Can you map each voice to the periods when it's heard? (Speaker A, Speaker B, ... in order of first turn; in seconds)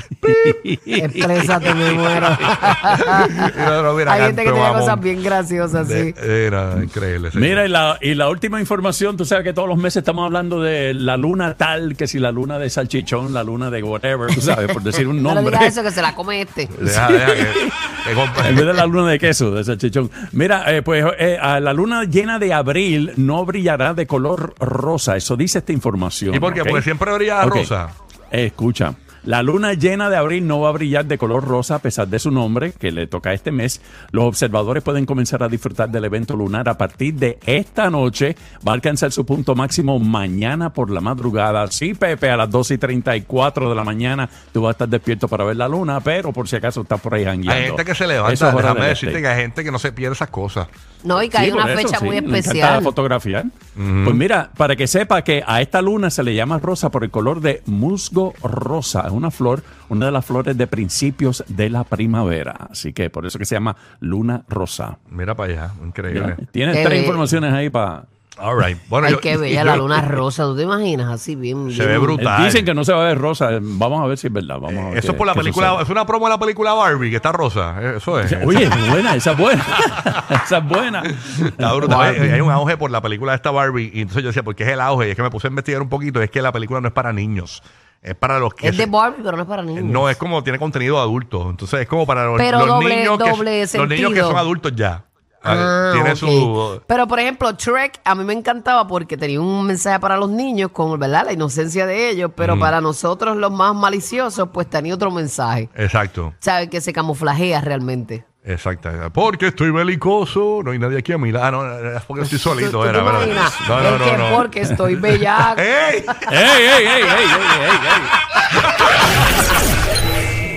Speaker A: 0.2-0.6, 1.7-5.1, 5.7-7.6, 16.8-18.8, 26.3-27.9, 47.5-50.7, 53.8-54.2, 65.1-66.4, 68.4-70.2, 71.7-72.7, 74.7-78.9, 81.3-88.9, 89.8-96.8, 102.4-102.7, 105.7-106.3, 108.4-116.3, 118.4-118.9
Speaker B: 0.2-2.7, 7.3-15.8, 16.8-17.7, 18.4-26.9, 27.4-27.7, 28.3-49.2, 51.2-65.0, 66.1-68.1, 72.2-75.8, 78.2-82.3, 113.3-114.0, 116.3-118.2
Speaker C: 0.9-6.2, 15.2-16.7, 51.0-52.9, 66.7-67.3, 69.0-72.2, 81.8-82.5, 88.6-90.1, 92.4-94.5, 95.5-105.7, 106.4-108.2, 112.2-116.3